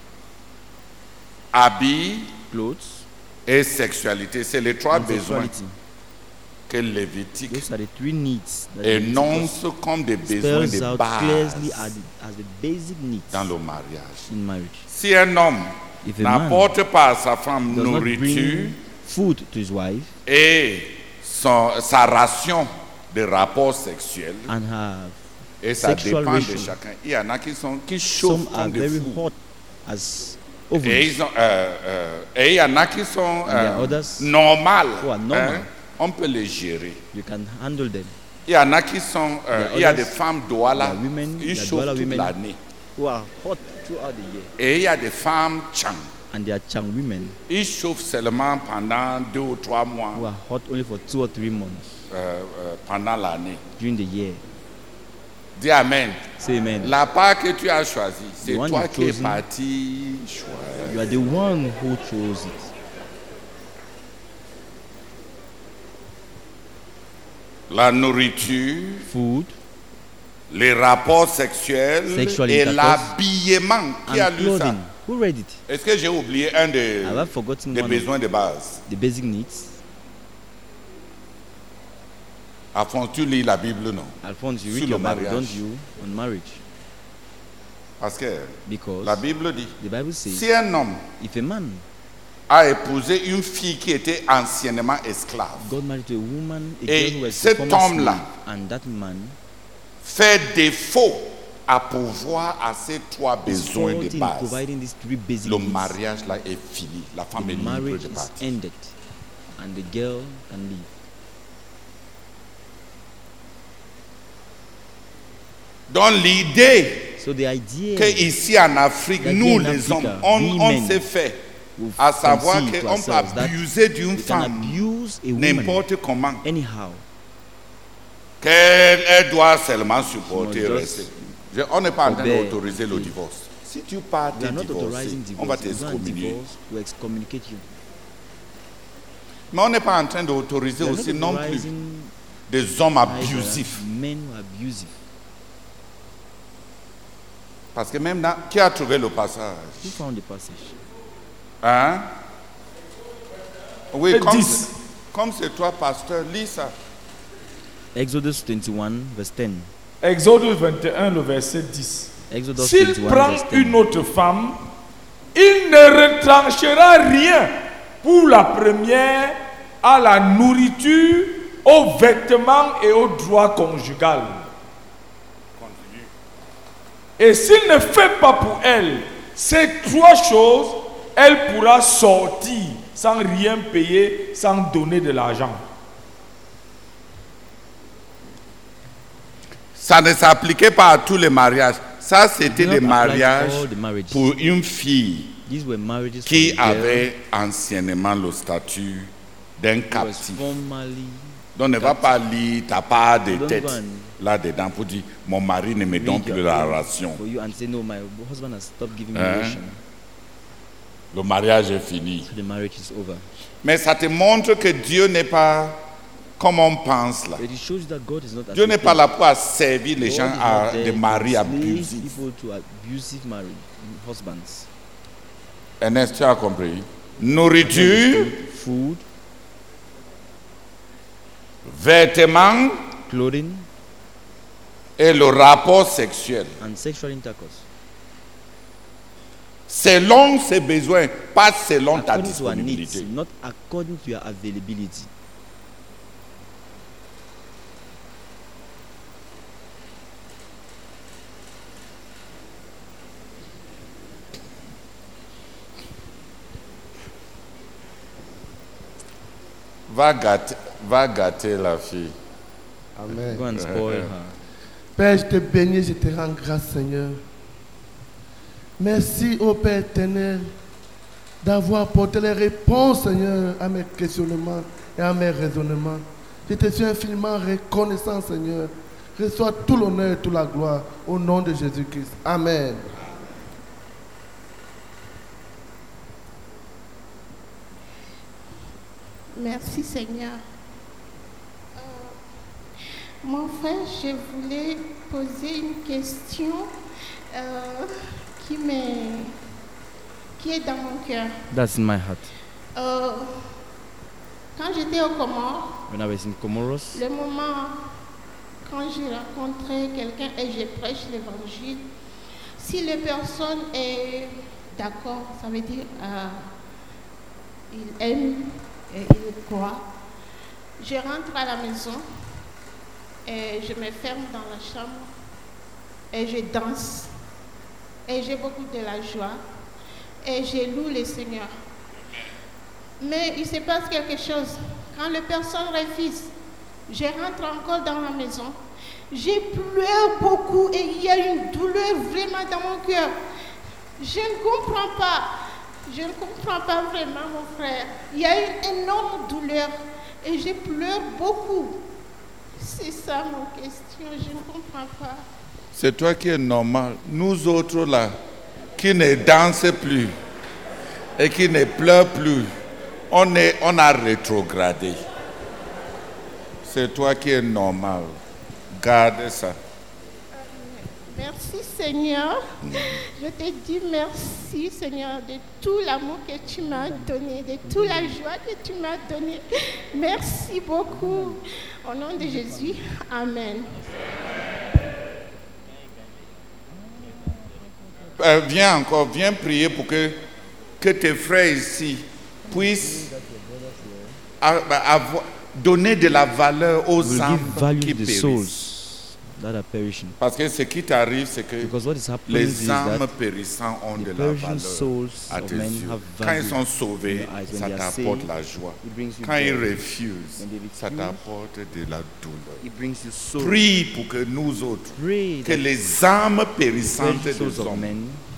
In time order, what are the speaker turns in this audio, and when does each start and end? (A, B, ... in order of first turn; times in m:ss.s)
0:01.5-0:02.3 A
0:02.5-0:03.1 B
0:03.4-0:05.5 A
0:04.9-0:05.8 B
0:06.7-0:07.6 A
0:07.5-0:09.6 B
0:08.8-0:11.9 A
0:10.2-0:13.5 B
0:13.3-0:14.3 A
0:14.3-0:14.9 B
0:14.9-0:18.8 A
0:16.0-0:16.7 B
0:17.7-0:20.2 B
0:20.2-0:24.5 A
0:24.5-0:25.2 B
0:25.6-0:29.2 A
0:25.8-0:26.8 B
0:28.2-0:31.2 B
0:30.8-0:37.0 A
0:33.4-0:34.3 B
0:35.0-0:35.7 B
0:37.1-0:38.2 B
0:38.5-0:42.6 A
0:39.5-0:40.2 B
0:40.7-0:42.4 B
0:43.0-0:44.5 B
0:44.6-0:46.1 A
0:46.3-0:47.4 B
0:47.5-0:50.3 A
0:50.1-0:52.0 B
0:52.1-0:53.6 A
0:53.8-0:54.4 B
0:55.6-0:56.2 A
0:56.4-0:56.9 B
0:56.8-1:01.2 A
0:58.4-0:59.4 B
1:00.8-1:02.7 B
1:07.7-1:09.1 A
1:09.0-1:09.6 B
1:10.5-1:14.8 A
1:12.1-1:13.1 B
1:14.1-1:15.6 B
1:15.7-1:18.8 A
1:17.0-1:18.1 B
1:18.9-1:19.8 B
1:22.7-1:24.2 A
1:24.2-1:26.6 B
1:24.7-1:25.6 A
1:28.0-1:31.0 A
1:28.6-1:29.2 B
1:29.8-1:30.4 B
1:31.2-1:31.8 B
1:32.5-1:35.7 A
1:35.6-1:39.4 B
1:36.8-1:38.3 A
1:40.0-1:44.6 A
1:43.5-1:46.0 B
1:45.4-1:48.5 A
1:47.3-1:49.0 B
1:49.6-1:50.9 B
1:55.9-1:57.2 A
1:57.2-1:58.3 B
1:58.0-2:01.4 A
1:59.2-2:01.0 B
2:01.8-2:03.6 B
2:02.0-2:04.8 A
2:04.1-2:05.8 B
2:05.4-2:06.4 A
2:06.4-2:07.0 B
2:08.4-2:16.4 A
2:10.2-2:11.3 B
2:12.0-2:13.2 B
2:14.3-2:17.7 B
2:19.5-2:21.7 A
2:20.8-2:22.1 B
2:22.5-2:23.8 A
2:23.0-2:25.0 B
2:27.7-2:30.0 A
2:29.8-2:30.8 B
2:31.6-2:32.1 A
2:33.9-2:36.7 A
2:34.1-2:34.7 C
2:37.9-2:39.7 B
2:40.0-2:44.6 C
2:42.3-2:43.8 B
2:45.3-2:54.4 C
2:55.6-2:56.1 A
2:57.2-3:05.6 C
3:09.7-3:15.4 A
3:12.5-3:14.3 B
3:15.4-3:17.1 B
3:16.2-3:20.4 A
3:19.9-3:22.2 B
3:21.6-3:27.2 A
3:23.3-3:24.1 B
3:25.9-3:29.8 B
3:29.1-3:29.6 A
3:31.1-3:32.3 A
3:32.2-3:33.2 B
3:33.6-3:35.8 A
3:36.4-3:37.4 A
3:37.4-3:39.0 B
3:38.5-3:42.2 A
3:40.0-3:44.7 B
3:45.8-3:48.3 A
3:47.6-3:49.0 B
3:51.6-3:52.8 A
3:53.1-3:53.7 B
3:55.0-3:56.5 A
3:56.6-3:57.6 B
3:59.7-4:03.1 A
4:01.9-4:05.1 B
4:19.9-4:22.1 A
4:23.0-4:23.4 D
4:23.3-4:24.4 B
4:23.5-4:24.1 A
4:25.0-4:27.2 D
4:28.8-4:30.5 D
4:31.4-4:42.8 D
4:49.3-4:50.4 E
4:51.8-4:52.2 E
4:53.2-4:56.7 E
4:57.3-4:59.3 E
5:00.4-5:01.4 E
5:01.5-5:02.3 B
5:02.8-5:03.5 E
5:04.6-5:05.8 E
5:05.9-5:07.0 B
5:06.9-5:07.8 E
5:08.6-5:11.9 E
5:12.6-5:16.5 E
5:17.7-5:19.9 E
5:20.8-5:22.0 E
5:23.2-5:25.1 E
5:26.1-5:27.1 E
5:28.1-5:29.4 E
5:30.2-5:31.5 E
5:33.0-5:36.3 E
5:36.9-5:38.6 E
5:39.1-5:43.1 E
5:44.0-5:45.3 E
5:45.9-5:51.8 E
5:52.6-5:55.2 E
5:55.7-5:58.1 A
5:58.8-6:00.1 A
6:01.2-6:02.5 A
6:03.1-6:05.0 A
6:06.6-6:08.2 A
6:08.7-6:09.6 A
6:10.4-6:23.8 E
6:12.6-6:13.0 A
6:28.2-6:30.2 A
6:30.8-6:33.1 A
6:32.4-6:34.2 B
6:34.4-6:38.5 A
6:37.0-6:40.2 B
6:40.2-6:41.7 A
6:41.6-6:43.1 B
6:42.3-6:52.6 A
6:44.0-6:49.8 B
6:50.4-6:51.2 B
6:52.6-6:53.7 B
6:53.4-6:57.9 A
6:54.9-6:55.9 B
6:56.8-6:58.2 B